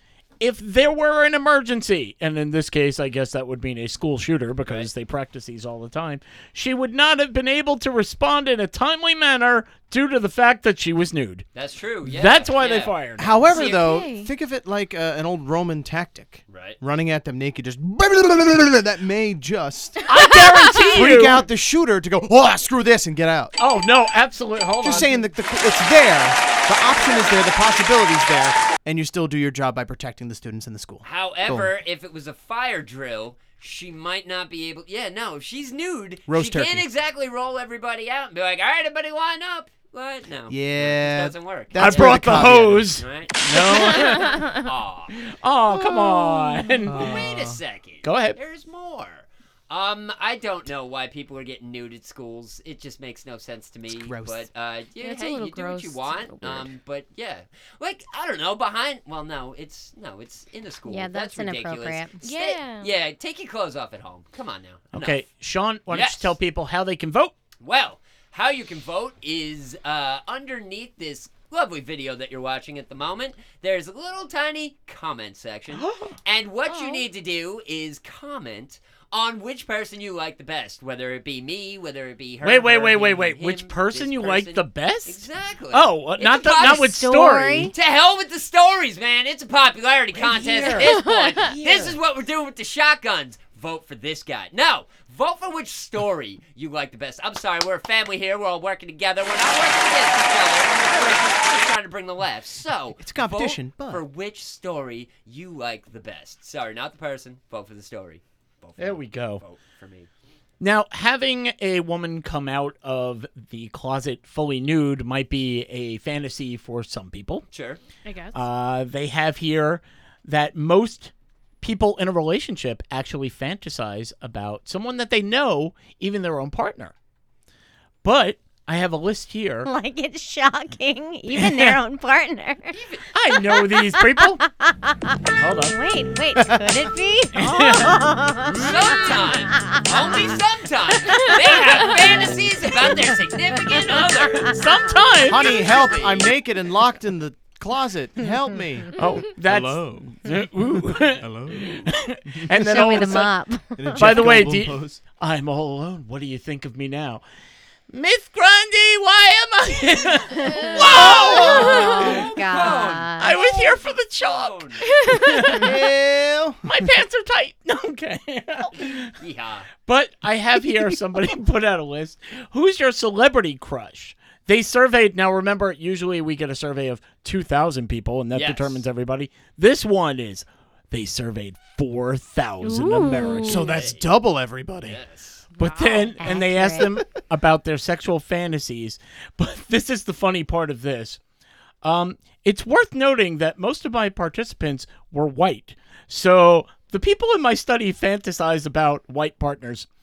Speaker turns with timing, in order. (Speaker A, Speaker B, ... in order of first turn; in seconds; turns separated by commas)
Speaker A: 0.4-11.5, Speaker B: 11.5-13.0, Speaker A: 12.0-13.5, Speaker C: 13.2-20.0, Speaker D: 13.5-14.3, Speaker B: 13.5-13.9, Speaker B: 16.5-16.8, Speaker A: 20.1-21.4, Speaker D: 20.2-20.9, Speaker C: 20.8-23.5, Speaker A: 23.6-25.2, Speaker C: 24.8-31.7, Speaker B: 31.0-45.1, Speaker C: 36.3-36.9, Speaker C: 40.5-42.9, Speaker A: 41.8-47.2, Speaker D: 44.0-44.5, Speaker C: 45.7-47.6, Speaker B: 46.9-65.2, Speaker A: 48.0-48.4, Speaker C: 54.0-54.4, Speaker D: 55.0-56.7, Speaker E: 60.9-62.1, Speaker D: 62.2-62.9, Speaker A: 64.9-67.3, Speaker B: 65.9-66.3, Speaker B: 67.6-86.9, Speaker D: 76.7-77.0, Speaker A: 82.4-87.7, Speaker E: 86.6-87.8, Speaker B: 87.7-110.1, Speaker A: 90.1-92.0, Speaker D: 90.8-91.5, Speaker C: 103.0-104.0, Speaker A: 108.8-109.4, Speaker A: 110.6-117.5, Speaker B: 117.5-117.8, Speaker D: 118.0-118.4, Speaker A: 118.3-126.9, Speaker A: 128.0-129.7, Speaker E: 129.6-132.8, Speaker A: 131.3-131.8, Speaker B: 132.7-133.1, Speaker A: 133.1-134.4, Speaker E: 133.3-140.4, Speaker A: 135.4-135.8, Speaker C: 136.4-136.8, Speaker A: 137.3-138.7, Speaker B: 138.5-144.6, Speaker E: 141.1-143.0, Speaker E: 143.7-145.0, Speaker A: 144.4-145.6, Speaker C: 145.2-150.2, Speaker B: 145.4-146.3, Speaker A: 148.9-153.4, Speaker C: 151.2-152.8, Speaker E: 152.5-154.3, Speaker C: 153.8-155.0, Speaker A: 154.0-157.2, Speaker A: 157.9-165.7, Speaker E: 160.4-163.4, Speaker D: 160.5-160.8, Speaker B: 160.8-163.7, Speaker D: 161.4-162.0, Speaker B: 164.2-164.9, Speaker D: 164.9-165.6, Speaker C: 165.5-166.7, Speaker A: 166.6-169.1, Speaker B: 168.7-169.7, Speaker A: 169.7-183.7, Speaker B: 178.3-178.8, Speaker D: 182.6-183.7, Speaker C: 183.1-185.0, Speaker B: 183.6-184.1, Speaker B: 184.8-185.4, Speaker D: 185.6-186.2, Speaker A: 185.6-191.2, Speaker E: 186.2-187.0, Speaker A: 191.8-199.9